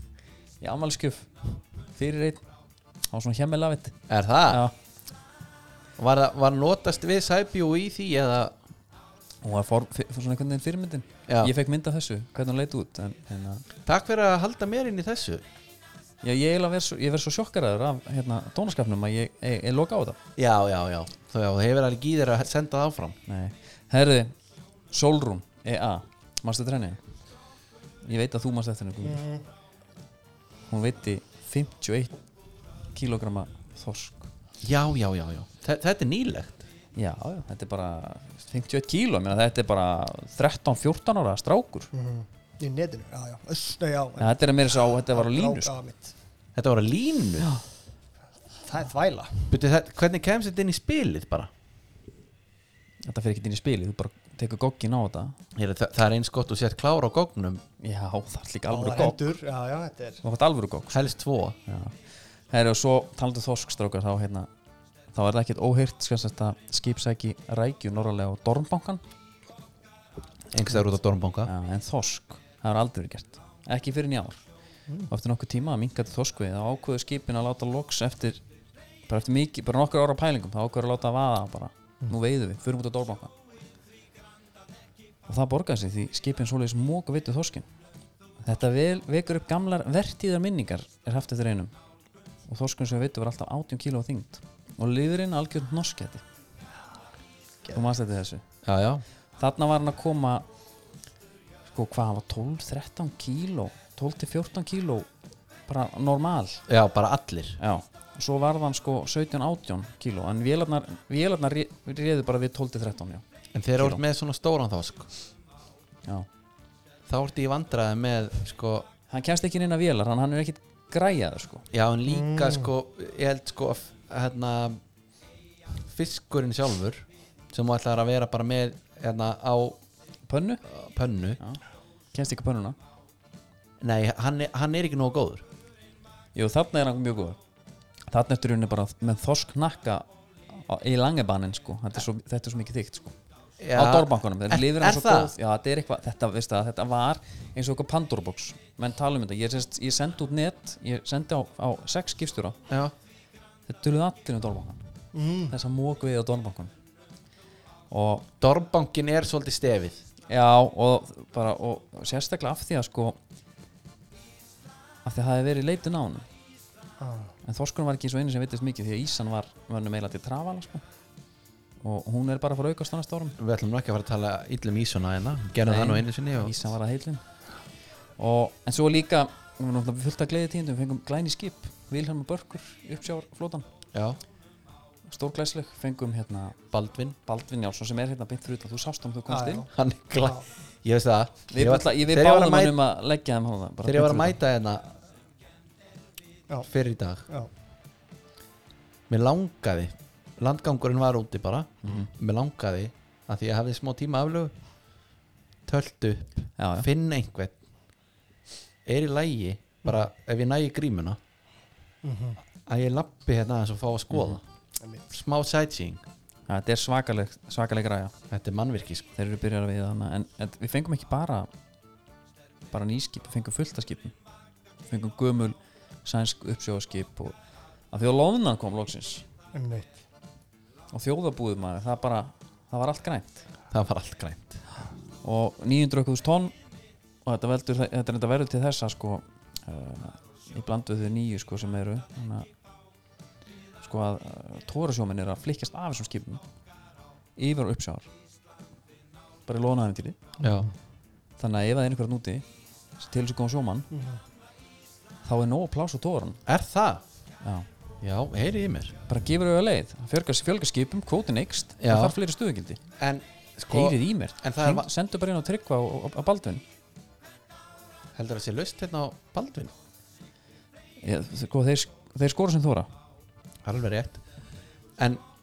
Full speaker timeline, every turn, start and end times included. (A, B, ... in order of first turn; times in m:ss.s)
0:00.6-0:02.4 A
0:03.1-0:04.7 A
0:04.1-0:04.6 B
0:06.0-0:08.5 B
0:09.4-0:13.6 A
0:11.3-0:11.5 B
0:13.8-0:15.4 B
0:16.2-0:20.2 A
0:20.4-0:23.2 B
0:23.3-0:24.3 A
0:24.9-0:27.0 A
0:28.0-0:29.2 A
0:29.0-0:29.4 C
0:30.7-0:32.1 A
0:32.9-0:34.3 A
0:34.6-0:36.6 B
0:36.9-0:41.9 A
0:41.9-0:46.1 C
0:44.2-0:45.7 A
0:46.5-0:47.5 B
0:48.6-0:49.5 C
0:49.5-0:51.5 B
0:53.0-0:55.4 A
0:55.5-0:57.6 B
0:57.8-0:59.2 A
0:58.7-1:00.2 C
1:00.2-1:01.0 A
1:00.9-1:01.6 B
1:01.7-1:02.0 A
1:02.5-1:04.5 A
1:05.1-1:09.0 A
1:10.5-1:11.5 B
1:11.4-1:14.4 A
1:15.1-1:18.4 A
1:19.1-1:23.3 A
1:25.3-1:27.7 A
1:28.4-1:31.7 A
1:32.5-1:36.2 A
1:37.7-1:38.4 A
1:38.6-1:39.0 B
1:39.4-1:40.4 A
1:41.6-1:45.1 A
1:45.7-1:46.6 A
1:46.7-1:47.6 B
1:47.6-1:53.2 A
1:53.5-1:55.1 B
1:53.8-1:54.0 A
1:57.1-1:58.8 B
1:59.1-2:01.6 A
2:01.7-2:04.8 B
2:02.1-2:02.7 C
2:05.9-2:09.8 B
2:10.3-2:10.6 A
2:10.7-2:11.4 B
2:12.1-2:12.8 A
2:13.8-2:15.4 B
2:16.3-2:17.4 A
2:18.1-2:23.2 A
2:23.6-2:25.3 B
2:23.7-2:32.6 A
2:33.7-2:34.8 A
2:35.1-2:35.5 C
2:35.5-2:36.7 A
2:37.9-2:38.2 A
2:38.4-2:40.0 B
2:40.3-2:43.2 A
2:45.0-2:46.3 A
2:47.0-2:47.3 C
2:47.4-2:50.8 A
2:51.8-2:53.4 A
2:53.4-2:56.7 B
2:55.6-2:57.2 A
2:58.2-3:03.7 A
3:03.9-3:04.2 B
3:05.0-3:06.6 A
3:06.7-3:07.2 B
3:07.2-3:09.7 A
3:09.3-3:09.7 C
3:09.7-3:12.7 B
3:11.5-3:14.4 A
3:13.8-3:14.8 B
3:16.7-3:17.2 B
3:19.1-3:24.5 B
3:21.8-3:22.1 A
3:25.7-3:27.5 B
3:26.6-3:26.9 A
3:28.8-3:31.2 B
3:32.0-3:32.4 C
3:32.7-3:34.4 B
3:34.1-3:34.4 A
3:35.1-3:36.0 B
3:36.5-3:38.1 A
3:38.3-3:39.1 B
3:39.2-3:41.5 A
3:42.7-3:44.1 A
3:44.9-3:47.4 A
3:47.9-3:49.2 A
3:49.5-3:50.0 C
3:50.9-3:53.4 A
3:53.7-3:54.6 B
3:55.2-3:56.5 A
3:57.2-4:02.5 A
4:03.8-4:06.4 A
4:07.4-4:08.1 A
4:09.5-4:10.2 A
4:10.4-4:10.7 B
4:11.4-4:12.4 A
4:13.0-4:13.9 A
4:13.9-4:14.2 C
4:15.2-4:16.4 A
4:16.5-4:17.0 B
4:17.4-4:17.7 A
4:18.0-4:18.9 B
4:19.1-4:22.8 A
4:21.8-4:22.2 B
4:23.0-4:24.9 B
4:23.7-4:26.6 A
4:28.1-4:29.7 B
4:31.0-4:32.9 A
4:33.6-4:34.2 B